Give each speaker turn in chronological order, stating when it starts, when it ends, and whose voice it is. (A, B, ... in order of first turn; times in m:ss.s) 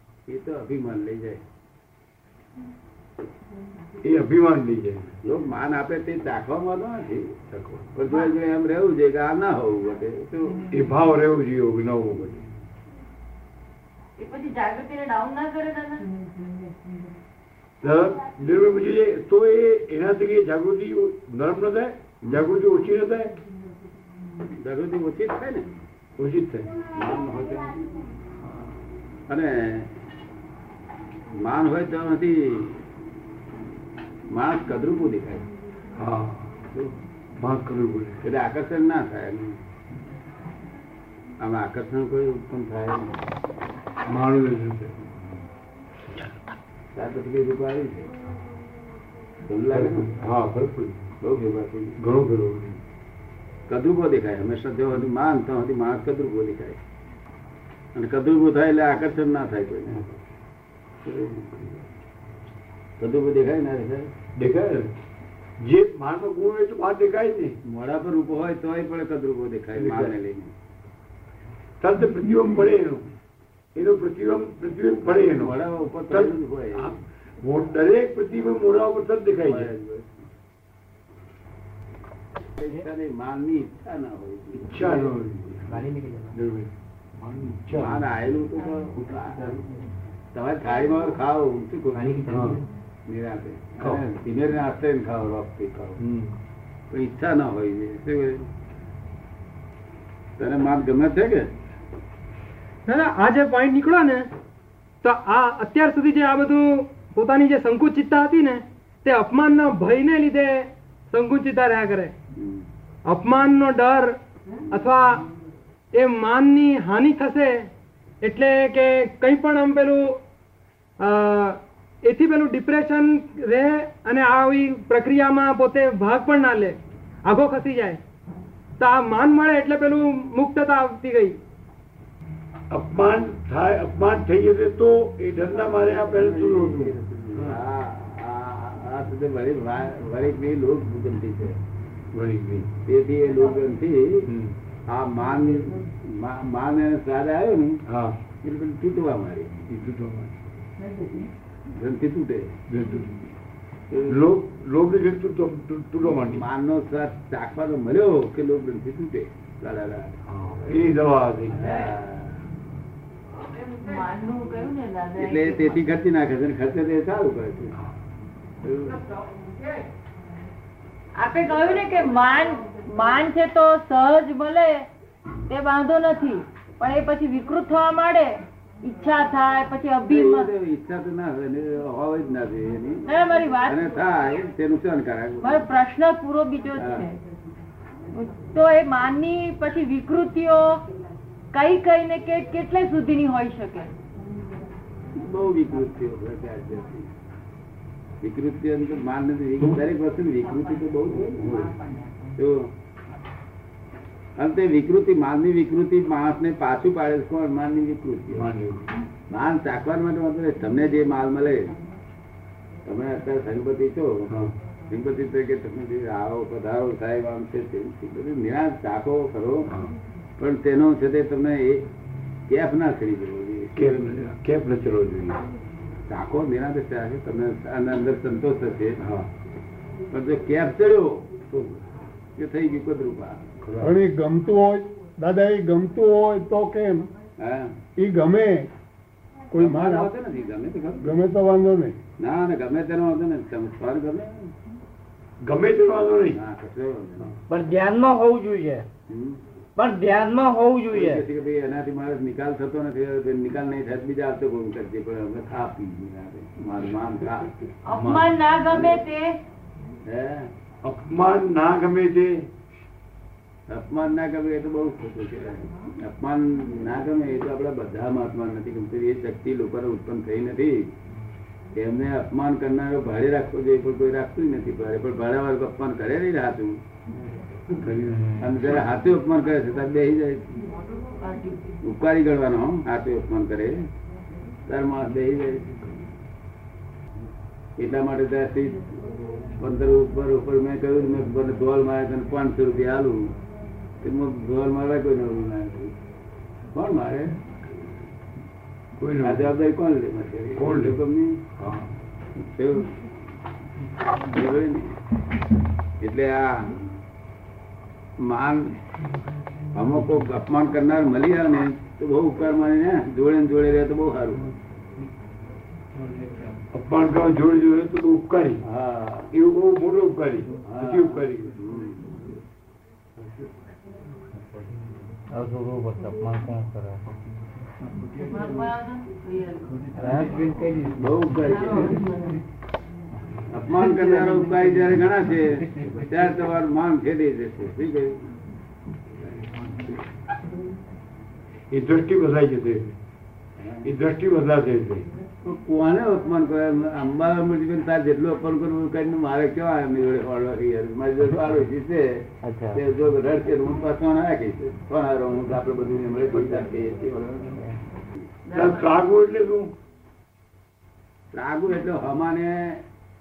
0:00.3-0:01.4 A
0:04.0-0:05.1 B
0:05.2-0:07.3 A
0:07.5-0:07.9 B
0:07.9-0:10.6 A
0:10.7-0:12.4 B
0:14.2-0:16.1 C
0:17.8-0:23.3 B
0:24.6-0:25.7 A
0:26.2-0:26.7 B
0:26.9-0:27.8 A
0:29.3-0:29.9 A
0:31.3-0:32.8 A
0:34.3-0:35.5 A
0:36.0-0:36.5 B
0:37.4-0:38.2 B
0:38.2-0:39.6 A
0:41.4-0:43.2 A
0:44.0-0:45.1 B
0:46.9-0:48.1 A
0:49.4-0:50.1 A
0:49.7-0:51.1 B
0:51.2-0:52.0 A
0:52.0-0:52.8 B
0:53.7-0:56.8 A
0:57.9-1:00.0 A
1:01.0-1:01.4 A
1:03.0-1:04.1 A
1:04.4-1:04.9 B
1:05.6-1:07.6 B
1:07.6-1:10.5 A
1:09.7-1:10.1 B
1:11.8-1:13.0 B
1:13.7-1:15.5 B
1:15.0-1:17.0 A
1:16.1-1:19.7 B
1:19.4-1:20.2 A
1:22.6-1:25.1 A
1:24.6-1:28.1 B
1:25.7-1:26.4 D
1:27.7-1:29.6 A
1:29.2-1:29.6 D
1:30.3-1:32.2 A
1:31.9-1:32.7 D
1:32.3-1:32.6 B
1:33.1-1:36.0 A
1:33.8-1:34.0 B
1:36.0-1:36.4 B
1:36.9-1:38.5 A
1:40.4-1:41.5 A
1:42.9-1:44.3 E
1:45.0-1:52.1 E
1:52.3-1:52.6 A
1:53.0-1:54.2 E
1:54.7-1:55.2 E
1:55.9-1:57.7 E
1:58.2-2:00.2 E
2:01.0-2:08.0 E
2:08.8-2:11.4 E
2:12.7-2:17.6 B
2:15.5-2:21.6 A
2:22.1-2:22.7 B
2:22.8-2:24.3 A
2:24.3-2:24.6 B
2:24.9-2:27.8 A
2:27.9-2:28.2 B
2:28.4-2:29.7 A
2:29.7-2:30.4 B
2:31.7-2:32.5 A
2:32.7-2:33.3 B
2:33.9-2:34.2 A
2:34.1-2:36.4 B
2:36.0-2:40.9 A
2:40.3-2:41.9 B
2:41.5-2:42.4 A
2:43.6-2:45.8 C
2:45.2-2:47.7 A
2:48.6-2:49.0 A
2:51.1-2:54.8 C
2:55.5-3:00.5 C
3:00.1-3:03.0 A
3:03.0-3:03.9 C
3:03.6-3:05.6 A
3:05.4-3:07.2 C
3:06.8-3:07.0 A
3:08.1-3:10.8 C
3:11.5-3:13.9 C
3:15.1-3:17.1 A
3:18.2-3:21.7 A
3:21.4-3:21.7 B
3:22.3-3:22.7 A
3:24.4-3:28.5 A
3:28.3-3:28.9 B
3:29.3-3:31.8 A
3:32.8-3:34.3 A
3:34.3-3:34.5 B
3:34.9-3:39.7 A
3:39.7-3:39.9 B
3:40.4-3:41.9 A
3:42.5-3:44.1 A
3:43.8-3:45.4 B
3:46.1-3:49.0 A
3:49.0-3:49.3 B
3:50.1-3:51.3 A
3:51.5-3:51.8 B
3:52.4-3:53.4 A
3:53.6-3:54.0 B
3:53.8-3:57.1 F
3:57.4-3:57.8 A
3:58.0-3:58.7 F
3:59.5-4:00.1 F
3:59.6-4:01.2 A
4:01.0-4:02.0 F
4:02.2-4:04.5 A
4:05.4-4:06.4 B
4:06.3-4:07.3 A
4:07.5-4:08.8 D
4:09.1-4:09.4 A
4:09.8-4:11.2 D
4:10.9-4:17.5 A
4:17.8-4:19.4 C
4:17.9-4:18.4 B
4:18.7-4:19.0 A
4:20.0-4:20.5 A
4:20.8-4:22.5 B
4:23.7-4:30.9 A
4:31.7-4:36.8 A
4:37.7-4:38.3 B
4:38.1-4:38.6 D
4:38.4-4:40.5 A
4:41.0-4:41.6 C
4:41.8-4:43.8 A
4:44.7-4:45.8 A
4:47.8-4:48.8 A
4:49.6-4:53.3 A
4:54.0-4:55.9 A
4:56.7-4:57.3 A
4:59.0-4:59.5 B
4:59.2-5:01.4 A
5:00.6-5:01.0 B
5:01.6-5:01.9 B
5:02.4-5:02.9 A
5:04.2-5:04.9 A
5:06.0-5:06.8 A
5:08.2-5:08.8 A
5:09.7-5:14.4 A
5:16.0-5:16.6 D
5:16.7-5:18.6 B
5:18.6-5:19.3 A
5:19.3-5:21.6 B
5:20.6-5:22.2 A
5:25.3-5:27.0 D
5:27.8-5:28.4 B
5:28.2-5:29.8 C
5:29.9-5:31.4 D
5:31.0-5:32.0 A
5:31.4-5:32.4 C
5:33.5-5:38.2 A
5:39.4-5:39.9 B
5:41.7-5:42.9 B
5:43.6-5:43.9 A
5:43.8-5:45.1 B
5:45.4-5:57.6 A
5:52.4-5:52.8 D
5:58.5-5:58.9 C
5:58.5-5:59.7 B
6:01.3-6:02.8 A